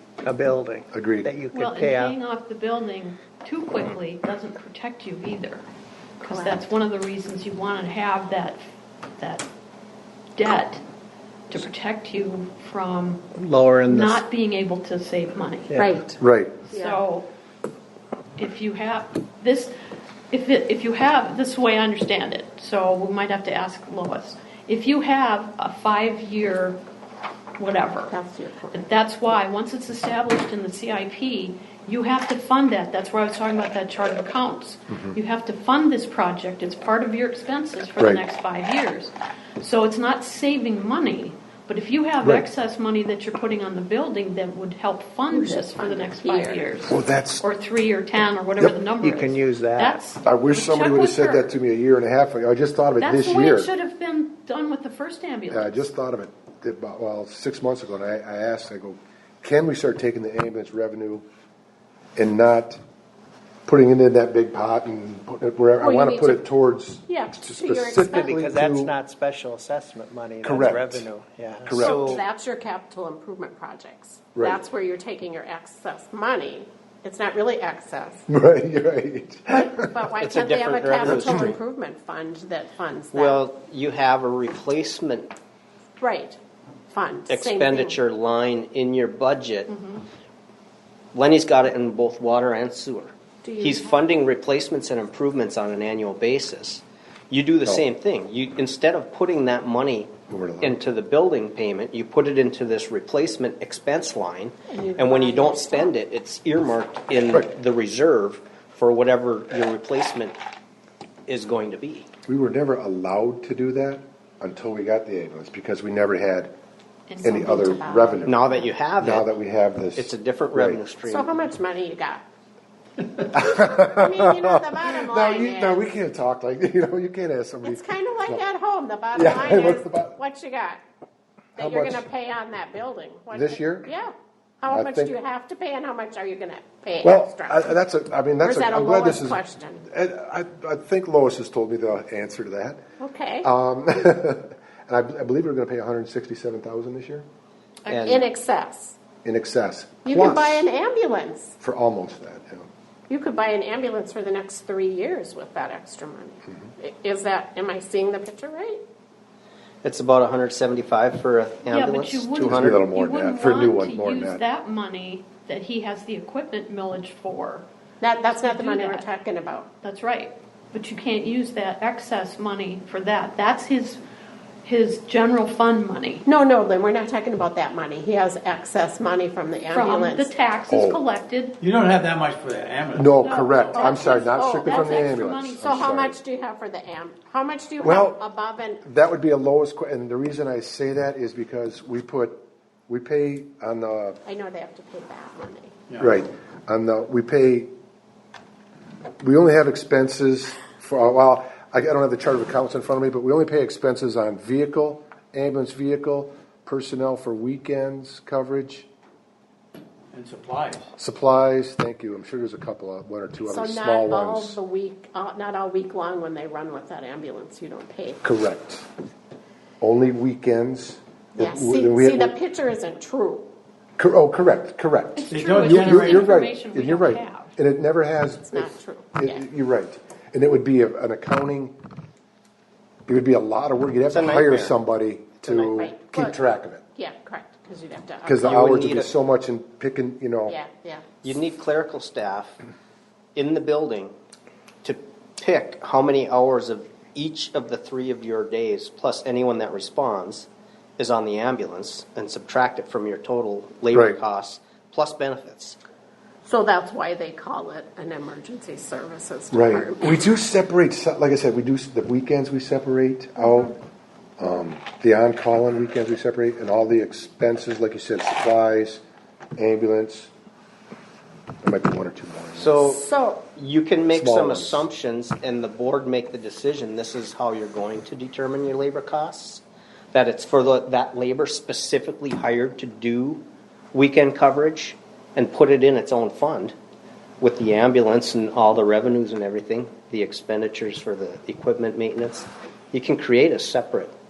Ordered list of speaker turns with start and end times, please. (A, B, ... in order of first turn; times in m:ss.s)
0:00.2-0:02.2 A
0:00.9-0:01.3 B
0:01.6-0:05.6 C
0:06.2-0:06.7 D
0:06.2-0:08.6 C
0:09.2-0:09.4 C
0:10.4-0:10.8 C
0:11.5-0:13.2 C
0:13.3-0:14.2 A
0:13.9-0:15.7 C
0:15.7-0:16.0 A
0:15.8-0:16.1 D
0:16.2-0:16.7 B
0:16.7-0:17.0 D
0:16.8-0:17.2 C
0:18.4-0:19.6 C
0:20.3-0:26.8 C
0:27.6-0:28.1 C
0:28.1-0:28.9 D
0:28.7-0:47.0 C
0:38.0-0:38.2 B
0:45.3-0:46.9 D
0:46.9-0:47.4 B
0:47.6-0:49.3 C
0:48.6-0:50.0 A
0:48.7-0:49.3 E
0:49.8-0:51.5 C
0:50.2-0:53.7 B
0:53.0-0:55.8 C
0:55.5-1:01.2 B
1:02.2-1:02.8 B
1:03.6-1:08.9 B
1:05.8-1:06.5 D
1:07.1-1:08.3 D
1:08.1-1:12.2 A
1:10.4-1:11.1 B
1:11.6-1:12.2 B
1:11.8-1:18.2 D
1:14.3-1:14.6 B
1:18.3-1:20.0 B
1:19.5-1:23.4 D
1:20.2-1:21.6 F
1:21.1-1:21.5 B
1:23.1-1:25.3 F
1:26.0-1:26.4 D
1:26.9-1:28.0 D
1:27.3-1:29.7 F
1:31.1-1:50.4 F
1:33.4-1:34.0 D
1:40.3-1:40.8 B
1:44.7-1:45.9 D
1:51.3-1:52.1 F
1:52.3-1:56.5 B
1:57.1-1:57.9 C
1:57.2-1:58.4 B
1:57.4-1:58.6 D
1:58.2-1:59.3 F
1:59.0-2:00.8 B
2:00.0-2:01.3 F
2:01.0-2:02.2 D
2:03.3-2:08.4 B
2:03.4-2:05.9 D
2:07.6-2:10.8 D
2:09.1-2:10.2 B
2:11.6-2:12.0 B
2:11.6-2:17.8 D
2:13.3-2:13.9 B
2:14.7-2:15.1 B
2:17.0-2:22.8 B
2:18.4-2:19.9 D
2:23.0-2:23.5 D
2:23.4-2:27.2 B
2:27.9-2:28.3 F
2:28.0-2:29.0 D
2:29.2-2:30.6 B
2:30.0-2:31.5 D
2:31.6-2:32.7 B
2:33.1-2:38.8 D
2:39.8-2:42.9 F
2:41.7-2:47.6 C
2:42.4-2:44.4 B
2:48.0-2:49.7 D
2:48.2-2:49.0 C
2:49.8-2:54.0 C
2:54.6-2:56.2 C
2:56.2-3:00.3 D
2:59.7-3:01.6 C
3:00.7-3:01.0 B
3:01.6-3:04.2 E
3:02.9-3:06.2 B
3:03.2-3:03.6 C
3:03.7-3:08.8 D
3:04.1-3:05.9 C
3:07.8-3:08.2 B
3:08.8-3:14.2 B
3:14.2-3:15.7 D
3:16.0-3:17.7 B
3:19.2-3:28.9 B
3:30.1-3:30.9 E
3:31.0-3:34.6 B
3:33.4-3:38.2 D
3:38.2-3:38.8 B
3:39.8-3:42.3 B
3:41.4-3:43.5 D
3:44.0-3:51.7 B
3:45.2-3:47.5 C
3:45.3-3:46.4 E
3:48.5-3:49.4 D
3:53.1-3:56.8 B
3:54.1-3:54.8 F
3:55.5-3:55.7 F
3:55.7-3:56.4 D
3:56.9-3:58.6 D
3:58.2-4:00.6 B
3:58.4-3:59.1 F
4:00.5-4:01.3 D
4:01.2-4:02.6 F
4:03.3-4:04.1 F
4:04.8-4:15.8 F
4:13.9-4:14.2 B
4:16.4-4:20.2 D
4:19.5-4:23.8 B
4:24.4-4:29.0 B
4:29.6-4:30.3 B
4:31.6-4:32.8 B
4:32.6-4:43.4 F
4:32.9-4:33.4 D
4:34.1-4:34.8 B
4:43.9-4:46.7 F
4:47.4-4:54.1 F